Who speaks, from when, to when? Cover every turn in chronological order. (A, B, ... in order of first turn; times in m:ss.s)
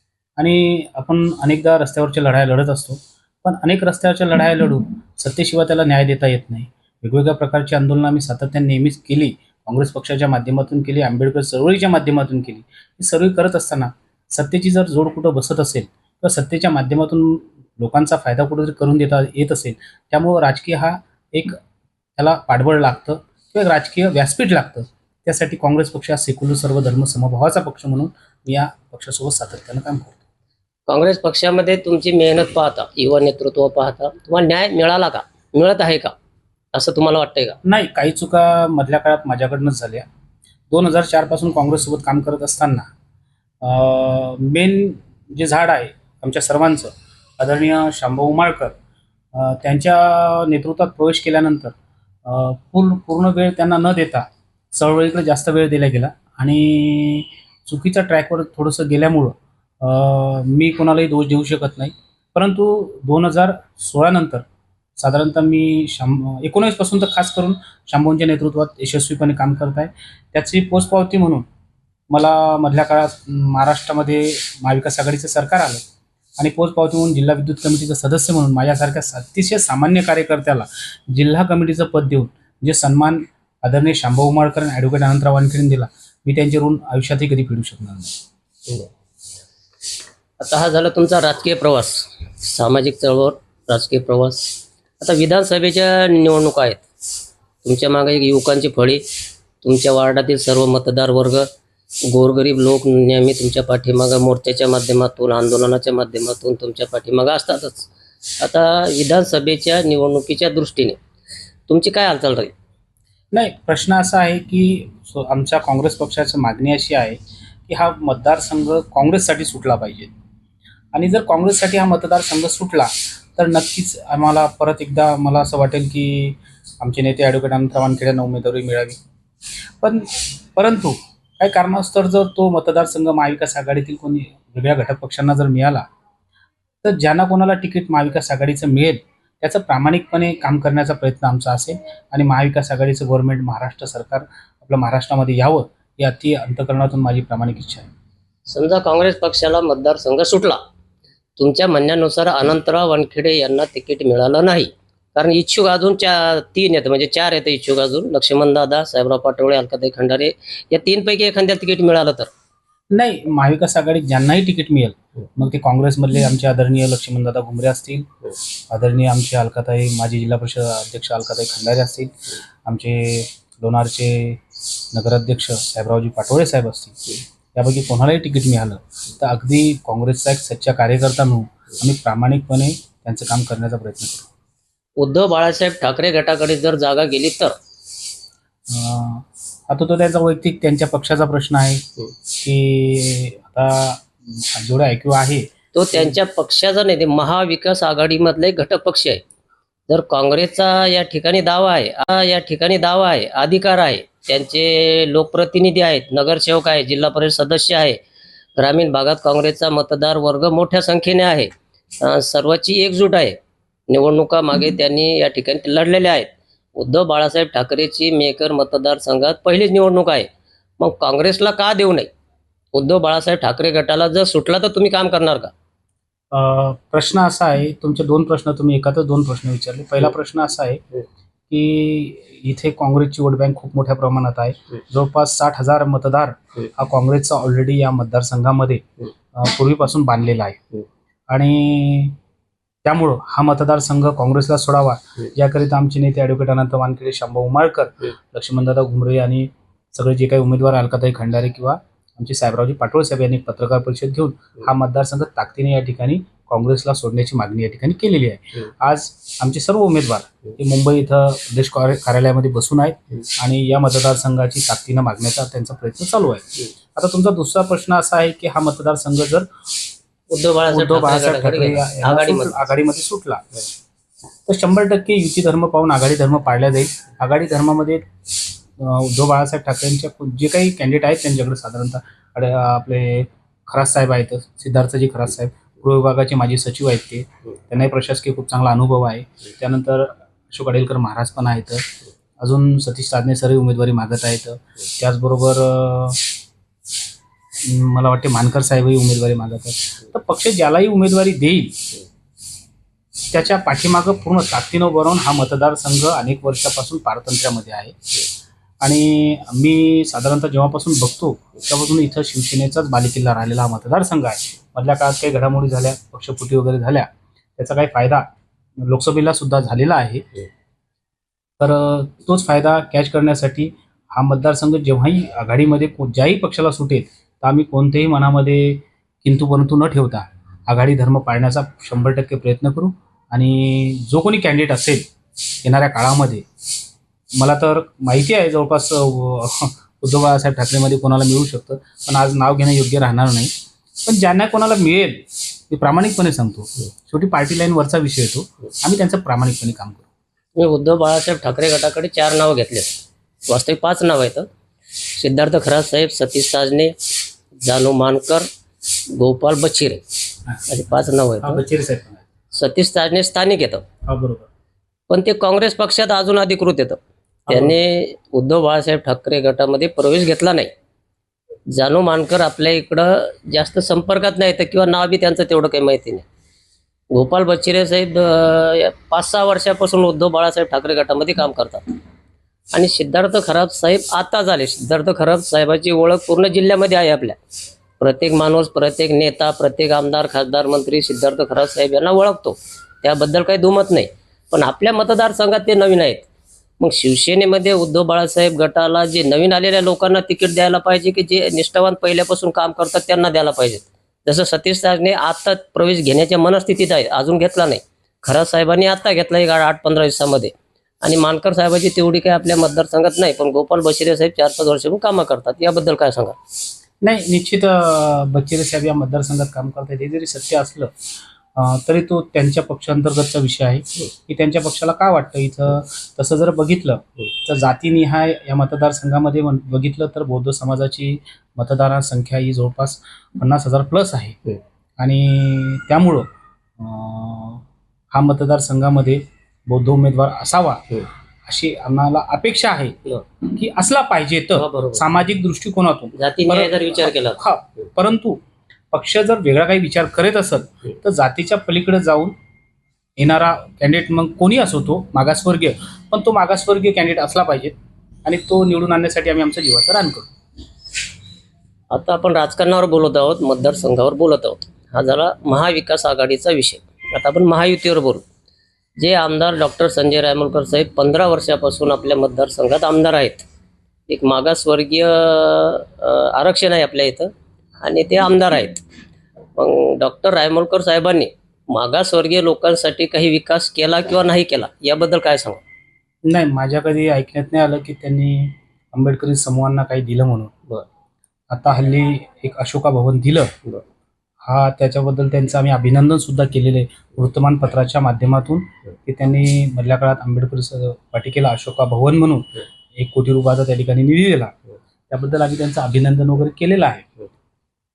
0:00.4-0:21.6 A
0:22.2-0:30.2 A
0:30.9-0:36.1 B
0:36.8-0:37.6 B
0:37.6-0:40.1 A
0:40.7-0:42.9 A
0:43.6-0:48.8 A
0:49.4-0:51.7 A
0:52.2-1:04.4 A
1:05.0-1:11.5 A
1:12.1-1:15.8 A
1:16.4-1:28.1 A
1:30.4-1:36.8 B
1:37.6-1:39.0 B
1:39.6-1:41.5 B
1:42.1-1:51.0 B
1:51.7-1:52.5 B
1:53.3-2:00.1 A
2:00.9-2:09.0 A
2:09.8-2:15.9 A
2:16.8-2:27.9 A
2:28.5-2:30.6 B
2:31.4-2:42.3 B
2:42.9-2:48.1 A
2:48.7-2:52.1 A
2:52.7-2:54.4 A
2:54.9-2:57.0 A
2:57.6-3:04.3 A
3:05.0-3:07.6 B
3:08.7-3:16.1 A
3:15.7-3:19.2 B
3:19.9-3:28.0 B
3:28.6-3:31.5 B
3:32.0-3:33.4 B
3:33.9-3:40.3 B
3:40.8-3:42.1 B
3:42.7-3:45.5 B
3:46.3-3:50.8 A
3:51.5-4:00.7 A
4:01.3-4:02.2 A
4:02.8-4:29.5 A
4:30.3-4:32.7 B
4:30.7-4:33.4 A
4:34.5-4:38.1 A
4:38.8-4:51.9 A
4:52.4-4:56.2 A
4:57.6-5:01.8 A
5:03.3-5:08.0 A
5:08.8-5:18.3 A
5:18.8-5:20.3 A
5:21.6-5:35.1 A
5:35.6-5:36.5 A
5:37.4-5:43.5 A
5:44.0-5:50.1 A
5:50.6-5:54.5 B
5:55.2-5:56.9 B
5:57.6-5:58.5 B
5:59.1-6:00.0 B
6:00.7-6:01.6 B
6:01.4-6:02.2 A
6:02.5-6:03.8 B
6:04.1-6:04.5 A
6:05.1-6:10.7 B
6:07.5-6:07.8 A
6:11.7-6:16.2 B
6:17.1-6:21.8 B
6:22.7-6:27.4 B
6:28.0-6:36.3 B
6:36.8-6:56.4 B
6:57.0-7:00.9 A
7:01.6-7:14.4 A
7:15.0-7:16.3 A
7:16.8-7:28.4 A
7:24.6-7:25.0 B
7:26.2-7:27.4 B
7:28.9-7:32.4 A
7:33.2-7:40.3 A
7:41.9-7:48.2 B
7:49.0-7:53.4 B
7:54.1-7:57.3 B
7:57.8-7:58.8 B
7:59.6-8:05.6 B
8:06.2-8:10.5 A
8:11.5-8:13.5 A
8:14.4-8:24.5 A
8:25.1-8:27.1 A